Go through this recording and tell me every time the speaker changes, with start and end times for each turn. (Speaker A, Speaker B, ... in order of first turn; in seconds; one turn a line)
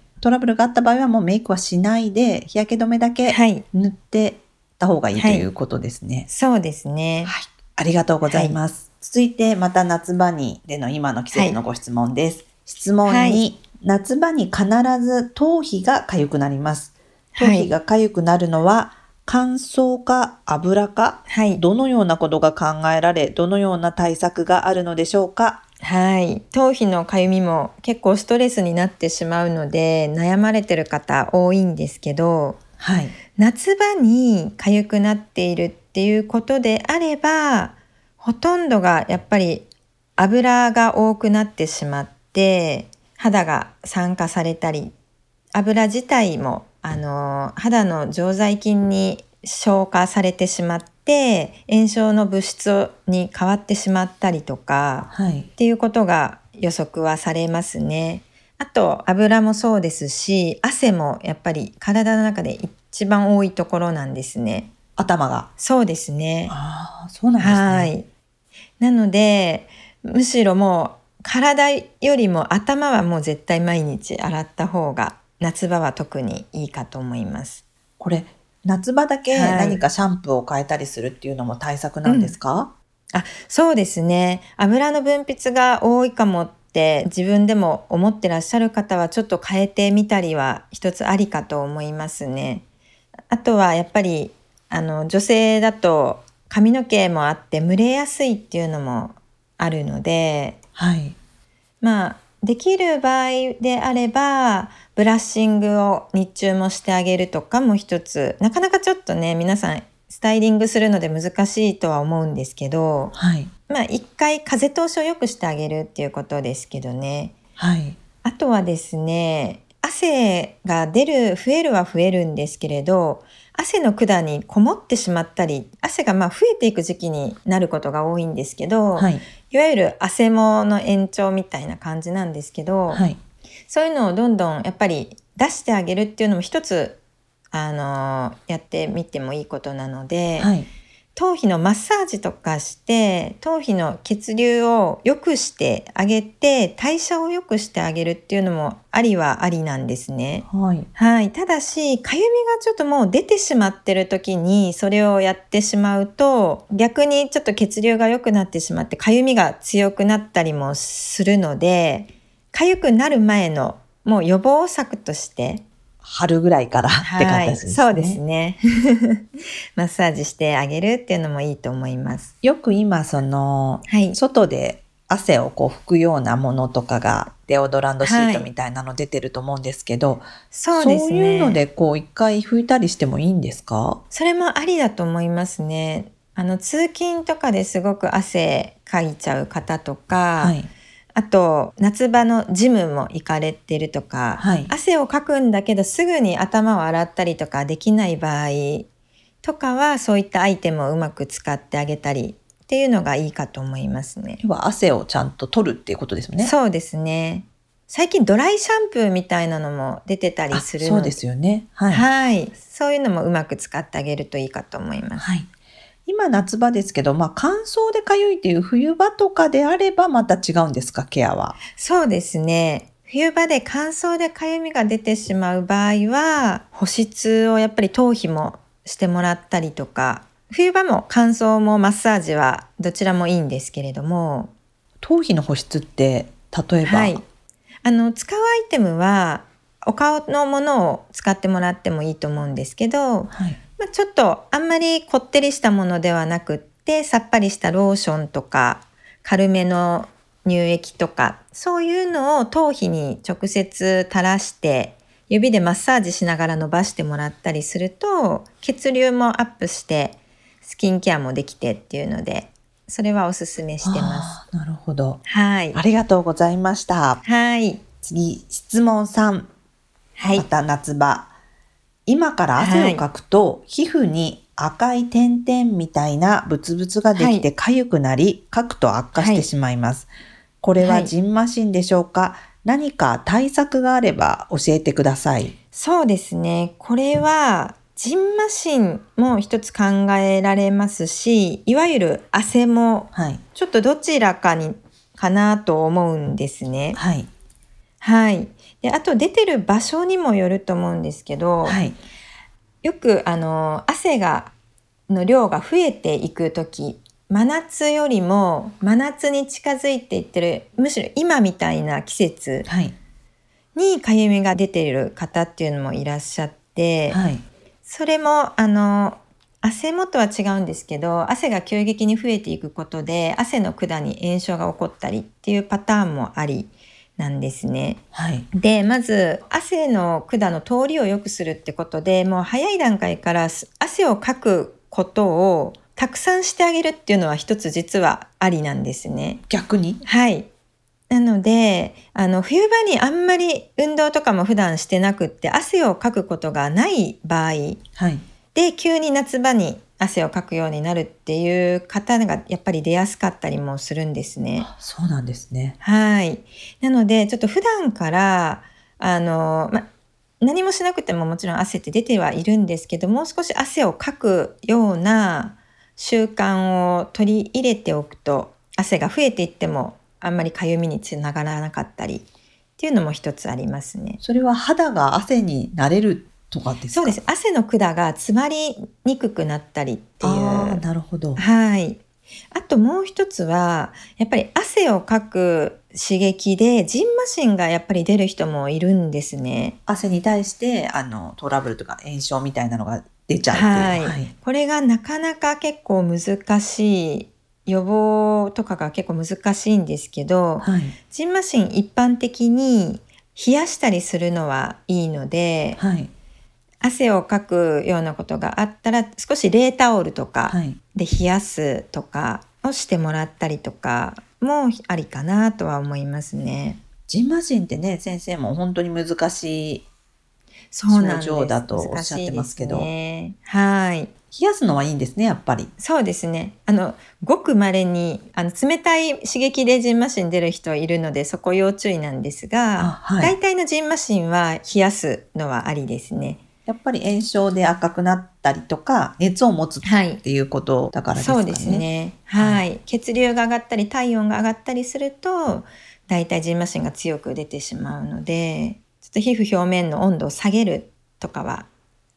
Speaker A: 0.2-6.3
Speaker B: 3.3-3.6
Speaker B: 5.2-5.5
Speaker B: 6.3-7.3
Speaker A: 7.2-25.6
Speaker B: 8.3-8.6
Speaker B: 11.3-11.6
Speaker B: 13.1-13.4
Speaker B: 17.4-17.7
Speaker B: 21.3-21.6
Speaker B: 25.8-32.6
Speaker A: 32.8-33.1
Speaker B: 33.4-44.9
Speaker B: 45.5-64.7
Speaker A: 55.1-55.5
Speaker A: 65.0-65.5
Speaker B: 65.6-66.5
Speaker A: 66.5-67.9
Speaker B: 67.4-68.1
Speaker B: 68.8-77.6
Speaker A: 78.0-82.7
Speaker B: 79.3-79.8
Speaker B: 82.1-82.4
Speaker B: 83.1-92.6
Speaker B: 93.3-100.6
Speaker A: 100.8-101.2
Speaker B: 101.8-113.1
Speaker A: 113.1-113.5
Speaker B: 113.7-117.3
Speaker A: 117.6-118.0
Speaker B: 118.2-133.0
Speaker A: 129.0-129.2
Speaker A: 132.9-133.2
Speaker B: 133.7-137.0
Speaker B: 137.5-140.5
Speaker A: 140.4-140.7
Speaker B: 141.2-165.6
Speaker A: 150.5-150.9
Speaker A: 166.0-168.2
Speaker B: 167.0-172.3
Speaker A: 172.4-184.0
Speaker B: 173.9-174.2
Speaker B: 178.0-178.5
Speaker B: 180.5-181.6
Speaker B: 184.1-190.6
Speaker A: 190.4-190.7
Speaker B: 191.2-198.9
Speaker A: 194.4-194.7
Speaker B: 199.4-204.4
Speaker A: 204.4-206.5
Speaker B: 206.4-211.2
Speaker A: 210.5-212.1
Speaker B: 211.9-215.2
Speaker A: 215.2-215.5
Speaker A: 216.1-221.6
Speaker B: 221.8-234.5
Speaker A: 235.0-237.2
Speaker B: 236.8-237.2
Speaker B: 237.8-264.4
Speaker A: 243.3-243.6
Speaker A: 263.8-265.2
Speaker B: 265.2-265.8
Speaker A: 265.7-267.2
Speaker B: 267.2-267.8
Speaker A: 268.0-269.5
Speaker B: 270.2-270.5
Speaker A: 270.4-271.3
Speaker A: 272.1-280.1
Speaker B: 272.6-273.0
Speaker B: 277.1-277.5
Speaker B: 279.2-279.5
Speaker A: 280.6-285.5
Speaker B: 280.8-281.1
Speaker B: 285.7-297.0
Speaker A: 293.1-293.4
Speaker A: 296.9-297.3
Speaker B: 298.0-301.8
Speaker A: 301.6-302.0
Speaker B: 302.8-304.5
Speaker B: 305.1-312.7
Speaker A: 312.7-312.9
Speaker B: 313.8-317.2
Speaker A: 317.1-317.4
Speaker B: 317.9-328.0
Speaker A: 328.1-328.5
Speaker B: 328.5-339.4
Speaker A: 339.5-340.0
Speaker B: 340.0-340.5
Speaker B: 341.1-347.8
Speaker A: 348.0-348.2
Speaker B: 348.5-354.7
Speaker A: 354.6-355.8
Speaker B: 355.8-359.9
Speaker B: 360.4-372.3
Speaker B: 372.8-374.2
Speaker A: 374.2-377.2
Speaker B: 376.9-380.8
Speaker A: 380.2-381.4
Speaker B: 381.4-382.0
Speaker B: 382.5-389.8
Speaker A: 389.9-394.3
Speaker B: 393.5-405.8
Speaker A: 400.6-401.0
Speaker A: 405.8-406.1
Speaker B: 406.8-416.8
Speaker A: 410.5-410.8
Speaker A: 417.1-419.9
Speaker B: 420.7-424.1
Speaker A: 420.9-422.9
Speaker A: 424.3-425.7
Speaker B: 425.8-436.4
Speaker A: 432.8-433.4
Speaker A: 436.7-442.6
Speaker B: 439.8-440.2
Speaker B: 441.1-451.7